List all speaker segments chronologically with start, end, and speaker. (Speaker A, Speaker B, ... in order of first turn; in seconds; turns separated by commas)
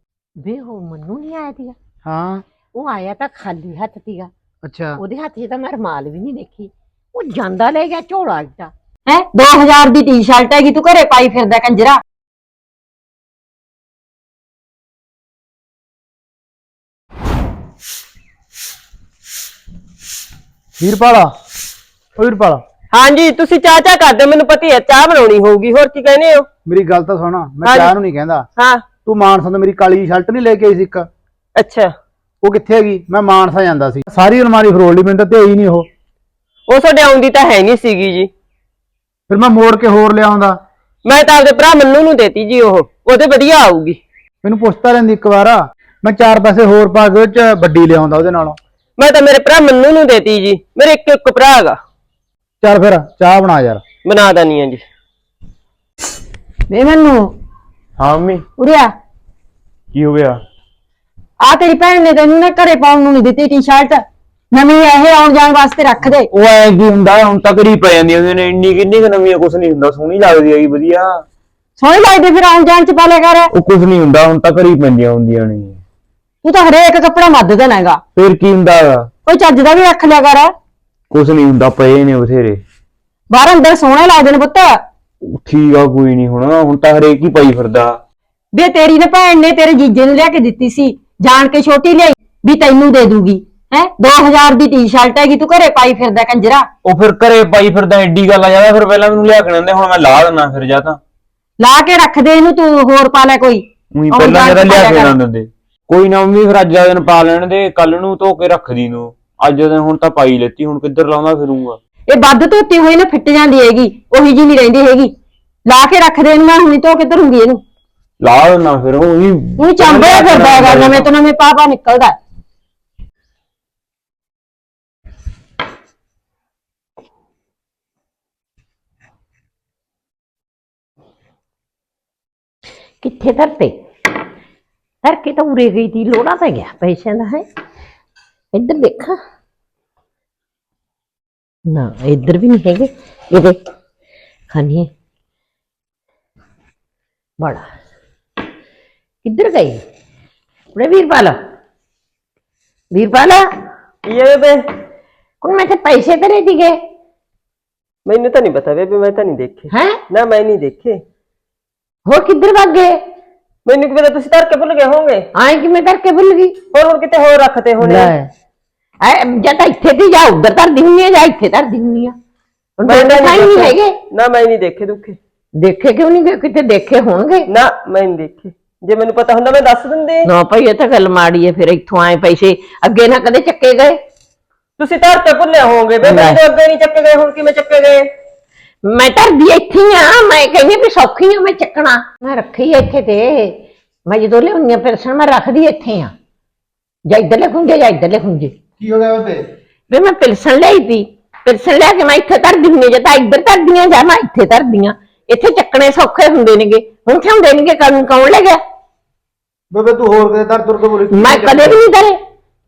Speaker A: 0.4-1.8, Speaker B: 2.0-2.4, Speaker A: 2.7-4.3, Speaker B: 4.6-5.0, Speaker A: 5.0-8.7, Speaker C: 9.1-12.0, Speaker B: 20.8-21.3, Speaker B: 22.2-22.6, Speaker D: 22.9-26.5, Speaker B: 26.6-28.5, Speaker D: 27.6-27.9, Speaker D: 28.6-28.8, Speaker B: 29.0-31.1, Speaker D: 31.6-31.9, Speaker B: 32.4-35.9, Speaker D: 36.7-38.3, Speaker B: 39.3-40.5, Speaker D: 41.0-44.0, Speaker B: 44.4-48.6, Speaker D: 49.0-51.8, Speaker B: 52.6-53.8, Speaker D: 54.0-54.8, Speaker C: 56.7-57.3, Speaker E: 58.0-58.5, Speaker C: 58.6-58.9, Speaker E: 59.9-60.4, Speaker C: 61.4-66.3, Speaker E: 66.0-71.2, Speaker C: 71.8-73.5, Speaker E: 73.5-75.8, Speaker C: 76.4-78.0, Speaker E: 78.1-79.1, Speaker C: 79.2-80.5, Speaker E: 81.1-82.6, Speaker C: 83.3-84.8, Speaker E: 85.2-88.0, Speaker C: 88.5-96.7, Speaker E: 96.8-101.0, Speaker C: 101.6-105.2, Speaker E: 103.9-111.8, Speaker C: 112.1-115.1, Speaker C: 115.7-117.6, Speaker E: 118.2-121.1, Speaker C: 119.6-122.2, Speaker A: 133.0-133.7, Speaker A: 135.0-137.4, Speaker A: 138.5-139.2, Speaker A: 141.7-143.6, Speaker A: 144.5-144.9, Speaker A: 147.4-147.7, Speaker A: 149.2-149.8, Speaker A: 150.7-151.3, Speaker A: 152.9-153.4, Speaker D: 154.1-154.6, Speaker A: 155.4-156.8, Speaker D: 158.1-161.0, Speaker A: 159.7-160.0, Speaker A: 162.1-163.0, Speaker D: 163.7-165.2, Speaker A: 165.3-166.5, Speaker D: 166.7-168.1, Speaker A: 167.8-168.3, Speaker A: 169.0-172.1, Speaker A: 172.8-173.9, Speaker D: 172.8-175.2, Speaker A: 175.6-177.5, Speaker D: 177.5-180.2, Speaker A: 180.2-183.9, Speaker D: 184.8-188.1, Speaker A: 186.0-186.4, Speaker A: 188.8-196.1, Speaker A: 197.1-198.5, Speaker B: 198.8-199.4, Speaker A: 199.9-208.6, Speaker B: 209.7-211.8, Speaker A: 211.1-212.2